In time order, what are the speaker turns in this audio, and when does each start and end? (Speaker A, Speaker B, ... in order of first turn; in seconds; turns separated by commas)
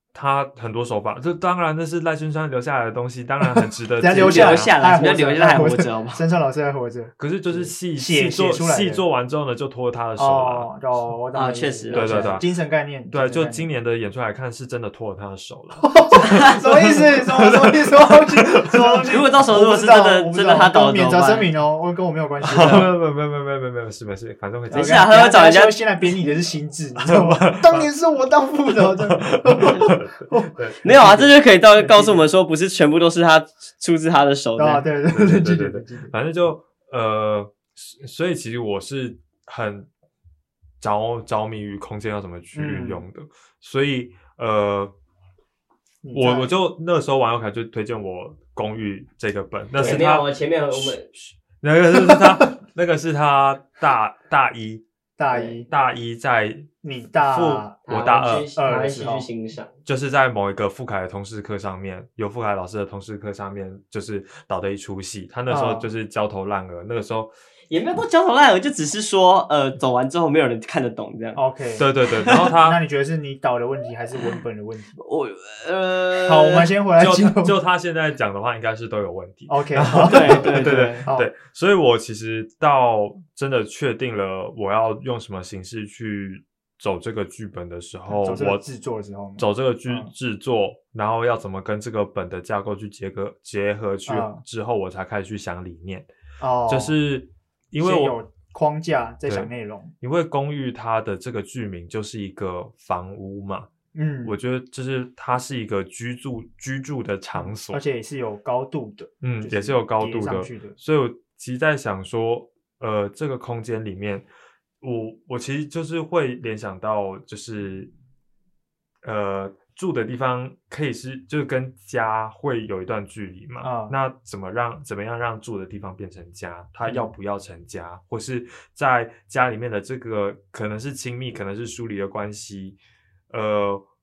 Speaker A: 0.1-4.7, Speaker B: 4.0-9.0, Speaker C: 4.2-6.2, Speaker A: 7.2-10.7, Speaker B: 10.2-13.7, Speaker C: 11.3-12.4, Speaker A: 11.9-12.5, Speaker A: 13.1-19.1, Speaker B: 15.8-22.9, Speaker C: 19.1-21.5, Speaker A: 22.4-25.1, Speaker B: 24.7-32.3, Speaker C: 24.8-25.8, Speaker A: 27.0-27.9, Speaker A: 28.7-31.0, Speaker C: 30.8-34.9, Speaker B: 34.6-36.1, Speaker A: 35.1-39.9, Speaker A: 40.8-44.9, Speaker B: 42.5-43.1, Speaker B: 46.0-46.5, Speaker A: 46.1-54.8, Speaker C: 49.8-51.1, Speaker B: 55.2-55.7, Speaker C: 55.3-55.6, Speaker A: 55.7-56.7, Speaker B: 56.8-57.8, Speaker A: 57.2-58.5, Speaker C: 57.9-59.7, Speaker B: 58.5-59.3, Speaker A: 59.9-67.3, Speaker B: 65.5-65.9, Speaker C: 67.7-71.4, Speaker B: 71.3-71.9, Speaker A: 71.8-72.8, Speaker C: 72.2-72.5, Speaker B: 72.6-75.0, Speaker C: 74.2-74.4, Speaker C: 75.0-76.7, Speaker B: 76.2-77.6, Speaker A: 77.0-88.6, Speaker B: 79.5-81.3, Speaker C: 80.0-81.0, Speaker B: 88.1-90.1, Speaker A: 89.4-96.1, Speaker B: 94.1-94.4, Speaker B: 96.4-97.0, Speaker A: 96.7-98.2, Speaker B: 97.8-99.9, Speaker A: 100.0-103.7, Speaker B: 103.9-104.4, Speaker A: 104.2-107.8, Speaker B: 107.3-110.8, Speaker A: 109.2-114.3, Speaker A: 114.8-117.9, Speaker A: 119.0-132.8, Speaker B: 123.6-124.0, Speaker B: 126.9-127.1, Speaker A: 133.3-133.8